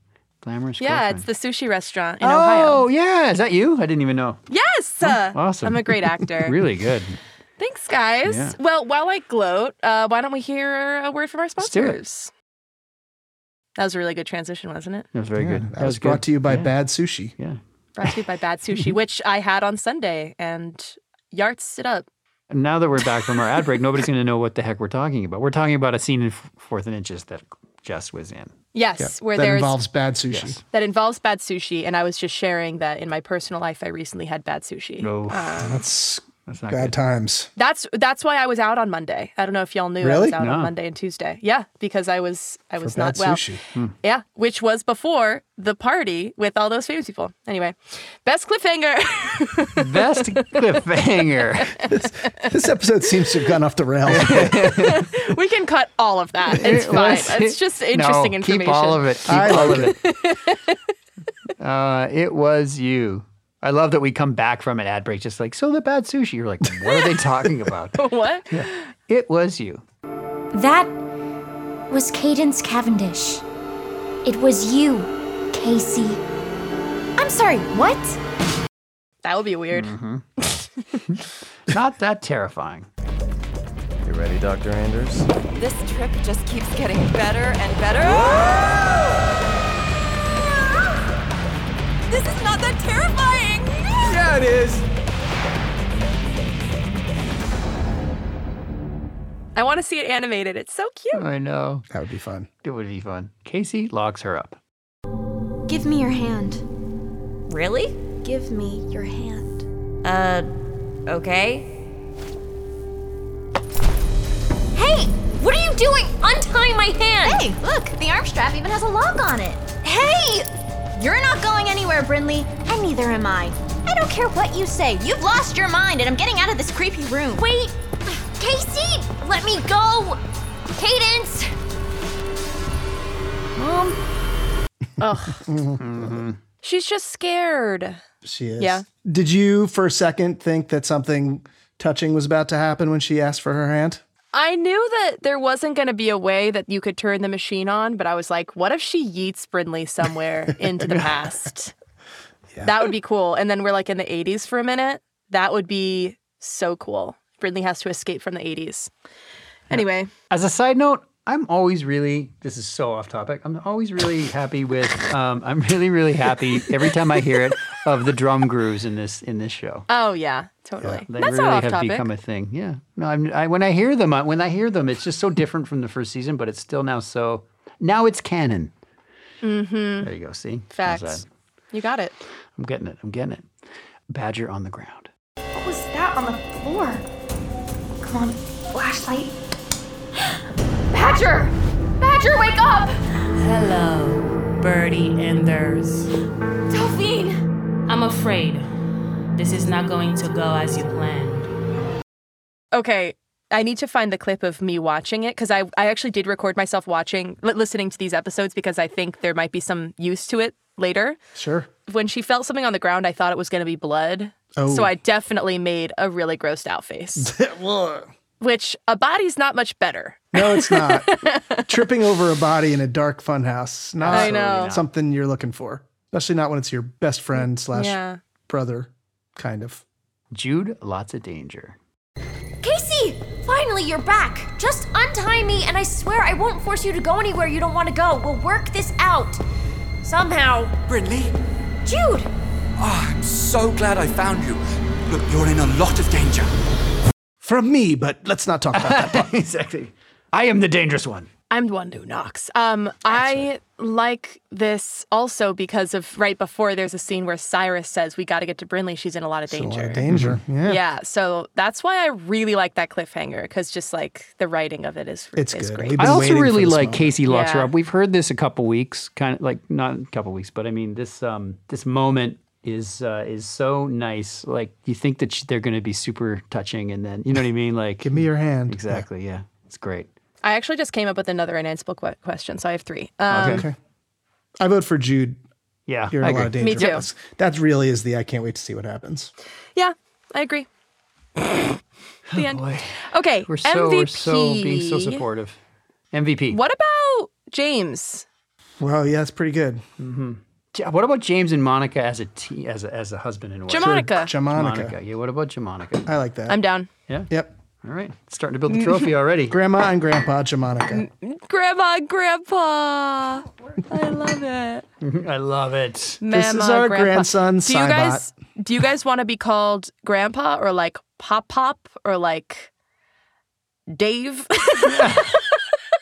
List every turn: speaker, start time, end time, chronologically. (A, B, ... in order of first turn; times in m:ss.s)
0:00.4-0:01.3 A
0:00.8-0:02.8 B
0:02.2-0:04.4 A
0:04.5-0:06.6 B
0:05.0-0:07.2 A
0:07.6-0:12.3 B
0:08.3-0:08.6 A
0:11.6-0:12.0 A
0:13.8-0:15.1 B
0:15.1-0:16.7 A
0:15.4-0:17.3 C
0:18.0-0:22.1 B
0:22.5-0:28.5 A
0:28.7-0:29.8 B
0:29.0-0:30.6 C
0:30.3-0:30.6 A
0:30.7-0:35.8 B
0:35.0-0:35.6 A
0:35.6-0:37.5 C
0:36.5-0:37.0 A
0:37.6-0:43.4 B
0:40.0-0:40.4 C
0:40.4-0:40.7 A
0:42.8-0:43.6 C
0:44.0-0:50.6 B
0:49.8-0:51.9 A
0:51.9-0:54.8 C
0:54.1-0:55.1 A
0:54.5-1:00.8 B
0:56.5-1:00.0 A
0:59.3-0:59.9 C
1:01.6-1:09.8 A
1:08.0-1:08.9 B
1:10.5-1:10.9 D
1:11.9-1:13.4 D
1:14.2-1:16.2 D
1:17.2-1:18.2 D
1:19.2-1:21.0 B
1:19.7-1:20.2 A
1:21.1-1:22.9 A
1:24.0-1:25.3 E
1:25.6-1:28.6 F
1:32.1-1:34.1 B
1:34.0-1:34.8 E
1:39.6-1:41.2 B
1:41.1-1:41.9 A
1:41.9-1:42.5 C
1:42.6-1:44.6 A
1:45.7-1:46.6 D
1:47.5-1:50.5 D
1:51.0-1:51.7 D
1:54.7-2:11.6 D
2:15.0-2:15.4 B
2:15.4-2:16.2 C
2:15.8-2:16.4 A
2:16.6-2:18.0 B
2:18.2-2:24.0 C
2:18.6-2:18.8 B
2:24.3-2:31.7 B
2:32.6-2:38.9 B
2:39.7-2:40.1 B
2:39.7-2:49.9 A
2:49.9-2:52.1 B
2:51.1-2:58.7 A
2:59.4-3:00.1 B
3:00.0-3:01.2 A
3:00.7-3:02.1 B
3:02.6-3:03.5 A
3:04.1-3:05.1 A
3:05.5-3:07.0 G
3:08.0-3:09.3 G
3:10.9-3:13.0 G
3:13.4-3:16.1 H
3:16.7-3:17.1 G
3:16.7-3:17.3 D
3:17.9-3:18.7 H
3:19.4-3:21.5 H
3:22.7-3:31.2 B
3:31.4-3:31.7 C
3:31.9-3:37.3 B
3:34.6-3:34.9 C
3:37.2-3:38.1 C
3:38.4-3:41.9 B
3:40.3-3:49.8 C
3:44.0-3:44.8 A
3:44.1-3:44.7 B
3:47.4-3:48.2 B
3:50.3-3:51.8 A
3:52.6-3:59.4 D
4:00.0-4:00.8 D
4:00.9-4:01.4 I
4:01.8-4:02.3 D
4:02.8-4:06.5 I
4:07.4-4:09.3 C
4:08.7-4:11.3 A
4:11.5-4:20.0 B
4:13.1-4:13.4 C
4:19.5-4:20.8 C
4:20.1-4:20.4 A
4:20.6-4:26.3 B
4:25.4-4:27.2 C
4:26.0-4:40.1 A
4:27.3-4:27.7 B
4:38.0-4:39.0 C
4:40.4-4:43.7 B
4:43.3-4:43.7 A
4:43.4-4:43.8 C
4:44.6-4:45.4 C
4:45.9-4:46.6 A
4:46.1-4:49.3 C
4:46.6-4:47.0 B
4:49.7-4:50.7 B
4:51.4-4:51.8 B
4:52.3-4:55.2 B
4:52.3-4:55.6 A
4:56.1-4:56.6 A
4:56.5-4:58.2 B
4:58.8-4:59.8 C
5:00.0-5:06.1 A
5:03.7-5:04.3 B
5:03.8-5:05.0 C
5:06.0-5:06.6 C
5:06.5-5:06.9 B
5:07.8-5:09.6 A
5:09.5-5:11.0 C
5:10.9-5:14.8 B
5:15.0-5:16.2 A
5:16.2-5:22.7 B
5:16.3-5:18.2 C
5:23.9-5:25.6 B
5:24.8-5:25.4 A